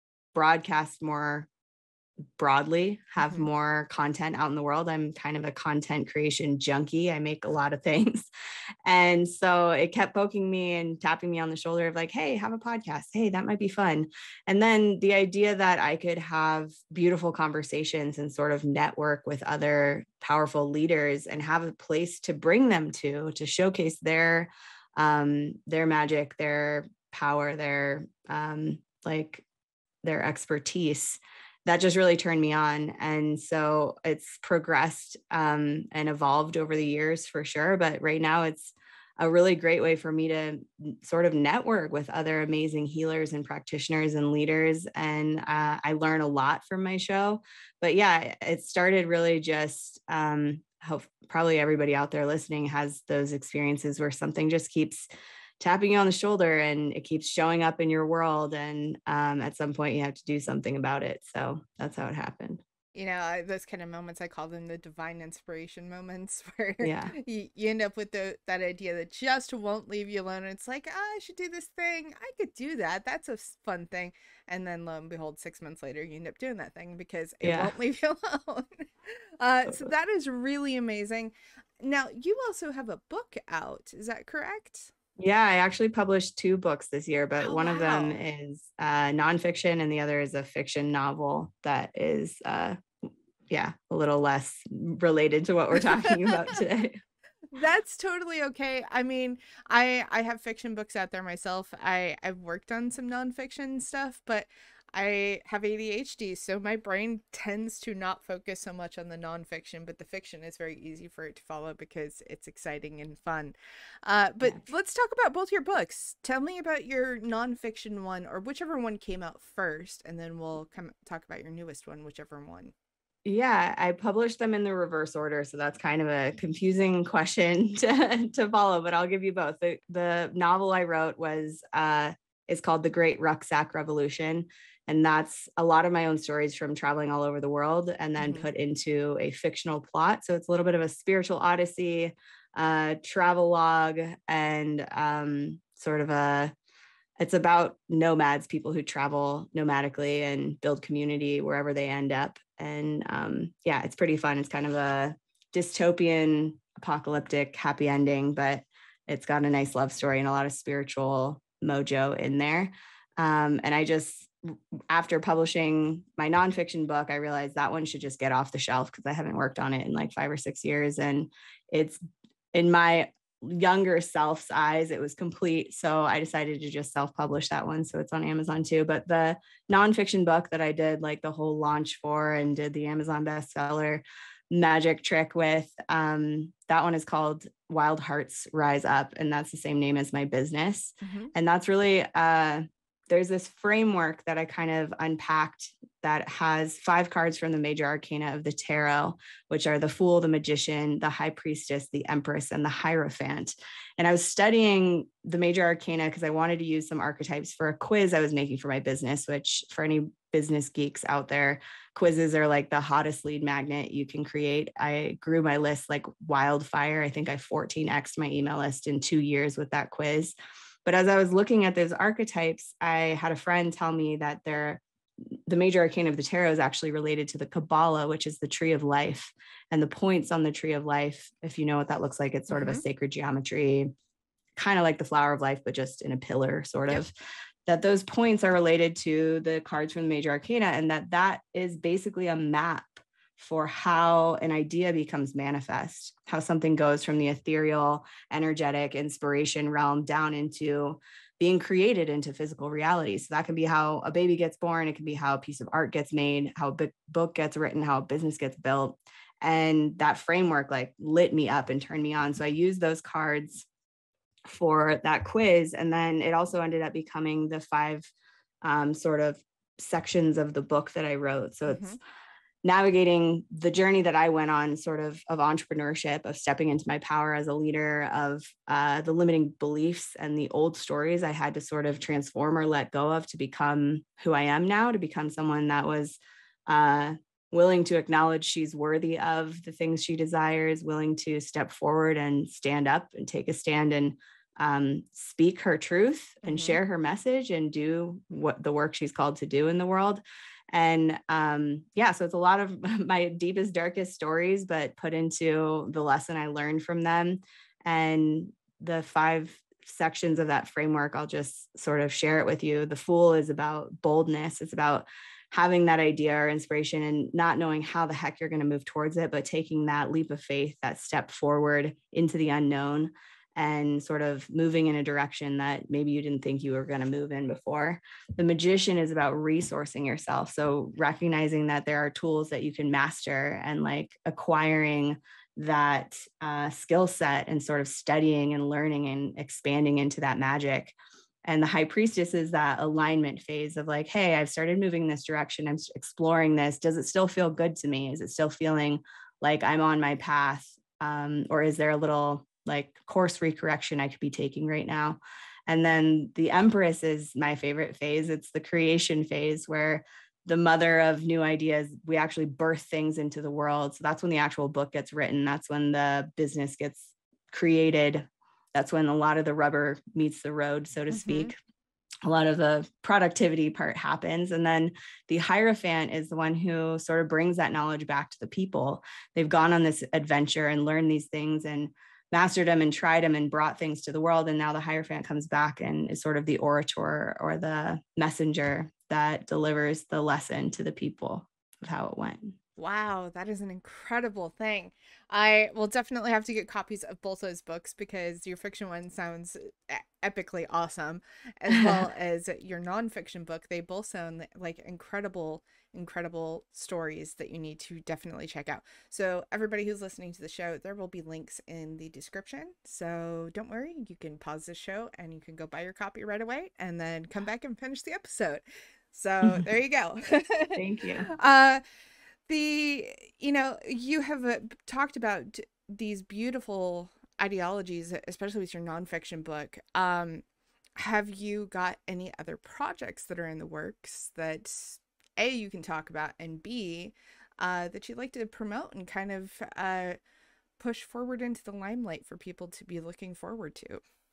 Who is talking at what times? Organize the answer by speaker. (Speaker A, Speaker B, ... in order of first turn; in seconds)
Speaker A: 0.3-1.5, 2.4-8.3, 8.8-29.4, 30.0-62.6, 66.8-67.1, 77.4-77.7, 85.2-92.8, 93.5-97.0, 123.2-146.5, 147.2-164.3, 164.9-172.0, 172.5-220.3, 220.8-224.8, 225.5-233.9, 234.6-237.1, 237.7-263.6, 264.4-268.1, 268.6-272.0, 272.6-340.9, 341.4-371.5, 372.2-392.6, 401.7-402.0, 420.8-421.3
Speaker B: 3.2-3.5, 62.9-84.9, 87.4-88.2, 96.2-96.5, 97.5-122.7, 138.2-138.5, 191.0-191.3, 232.5-232.8, 271.7-272.0, 296.4-296.8, 371.1-371.5, 392.8-421.8, 422.5-430.4, 431.0-440.2, 440.8-444.0